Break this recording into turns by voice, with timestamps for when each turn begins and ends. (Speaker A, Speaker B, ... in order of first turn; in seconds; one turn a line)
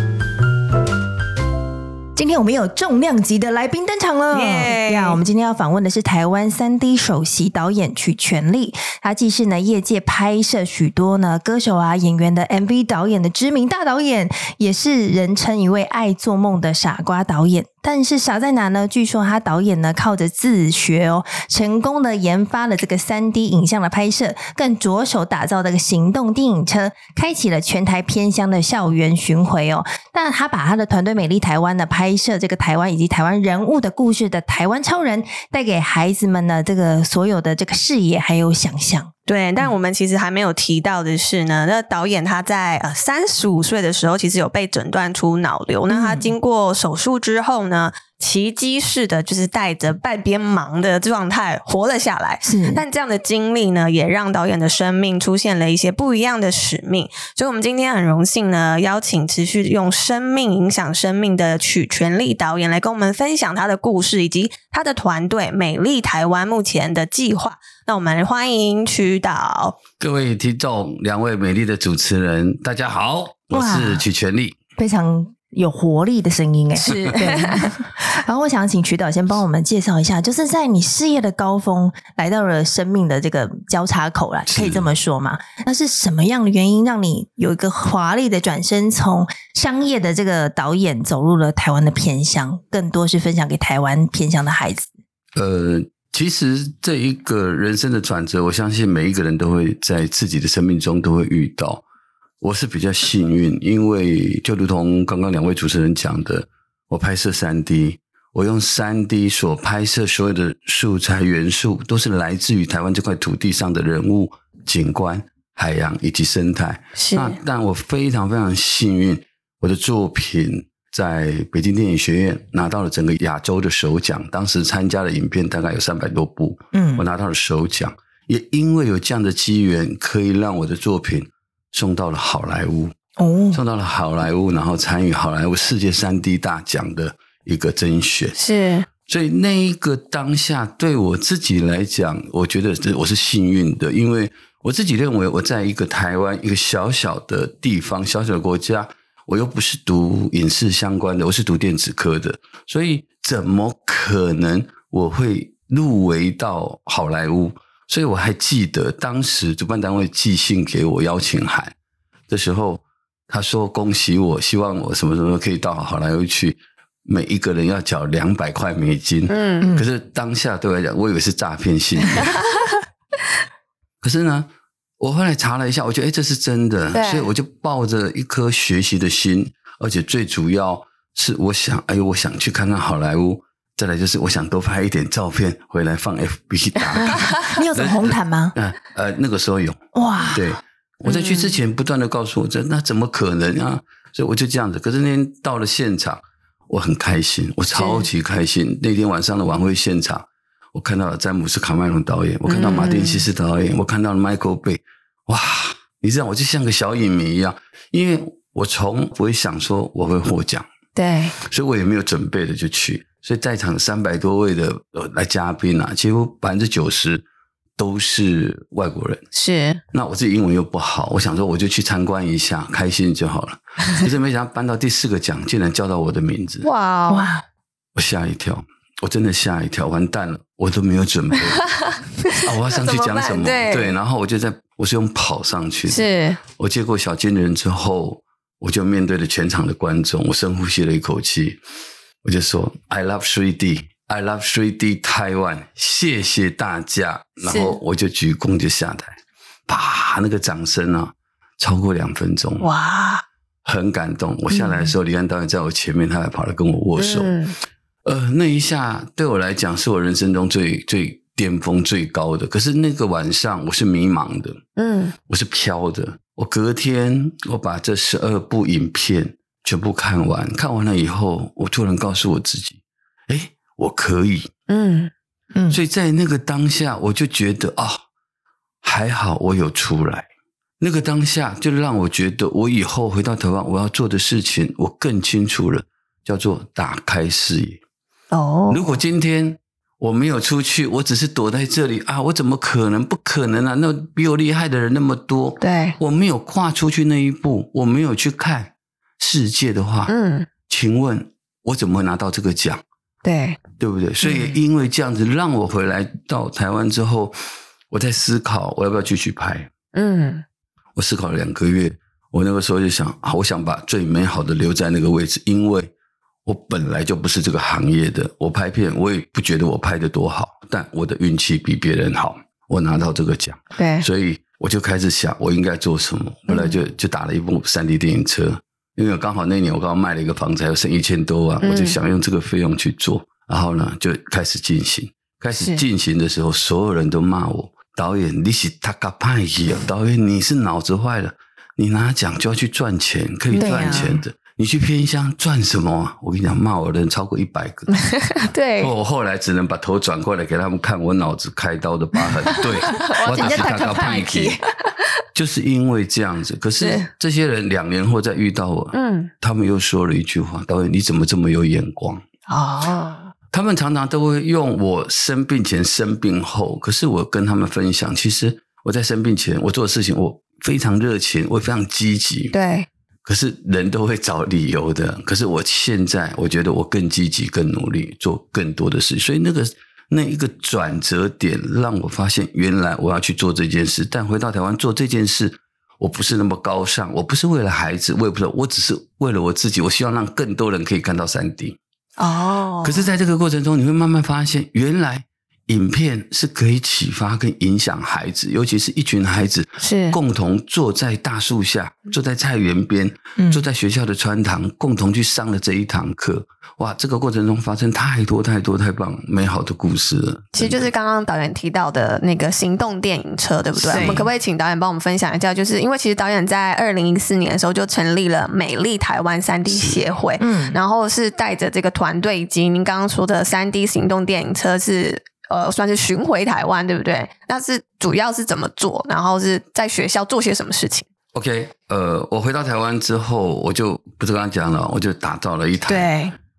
Speaker A: 2.2-39.1
Speaker B: 4.3-5.2
Speaker B: 39.3-69.8
Speaker A: 45.9-46.3
Speaker A: 52.4-52.8
Speaker C: 70.0-74.5
Speaker A: 73.5-74.0
Speaker A: 74.8-94.9
Speaker B: 76.8-77.8
Speaker C: 84.5-84.9
Speaker C: 95.4-101.8
Speaker C: 102.4-132.9
Speaker B: 117.0-117.4
Speaker A: 126.7-127.0
Speaker A: 133.2-133.6
Speaker C: 133.5-138.4
Speaker B: 138.4-138.9
Speaker C: 139.1-161.7
Speaker C: 162.3-172.4
Speaker B: 169.3-169.7
Speaker A: 169.6-169.9
Speaker C: 174.0-174.5
Speaker C: 175.0-210.7
Speaker B: 176.9-177.3
Speaker A: 187.4-188.5
Speaker A: 189.9-190.6
Speaker B: 191.1-191.6
Speaker B: 197.8-198.1
Speaker B: 202.5-203.3
Speaker B: 210.9-211.4
Speaker C: 211.4-217.2
Speaker C: 217.8-219.2
Speaker B: 219.3-219.8
Speaker C: 219.9-226.7
Speaker B: 226.6-227.3
Speaker A: 227.1-227.4
Speaker C: 227.9-231.7
Speaker B: 231.4-234.0
Speaker C: 232.3-241.6
Speaker B: 235.9-236.4
Speaker C: 242.2-252.7
Speaker B: 247.4-247.8
Speaker B: 252.6-253.2
Speaker C: 253.7-257.4
Speaker B: 254.5-254.9
Speaker B: 257.0-257.6
Speaker C: 258.1-264.6
Speaker B: 264.8-265.1
Speaker C: 265.3-274.5
Speaker B: 274.7-275.1
Speaker C: 275.7-278.0
Speaker C: 278.8-280.3
Speaker C: 280.8-287.8
Speaker B: 288.3-289.0
Speaker C: 288.7-300.1
Speaker B: 295.6-296.0
Speaker B: 300.1-300.5
Speaker C: 300.7-302.8
Speaker B: 303.2-303.6
Speaker C: 303.8-307.4
Speaker C: 307.9-309.7
Speaker B: 309.9-310.4
Speaker C: 310.9-315.9
Speaker C: 316.4-348.0
Speaker B: 323.8-324.1
Speaker B: 326.5-326.8
Speaker B: 331.6-332.0
Speaker B: 335.5-335.8
Speaker B: 343.5-344.2
Speaker A: 343.6-344.2
Speaker B: 348.0-348.9
Speaker C: 348.8-354.6
Speaker B: 352.6-355.1
Speaker A: 352.9-354.6
Speaker C: 355.3-362.2
Speaker B: 356.8-357.1
Speaker B: 358.9-359.3
Speaker B: 362.5-363.3
Speaker C: 363.5-372.6
Speaker B: 372.5-372.9
Speaker C: 373.2-391.8
Speaker B: 392.2-393.1
Speaker C: 392.8-410.9
Speaker B: 399.8-400.2
Speaker A: 403.4-403.6
Speaker B: 410.5-431.1
Speaker C: 413.8-414.3
Speaker A: 413.9-414.3
Speaker C: 419.7-420.0
Speaker A: 420.4-420.8
Speaker C: 431.3-436.1
Speaker B: 435.9-436.4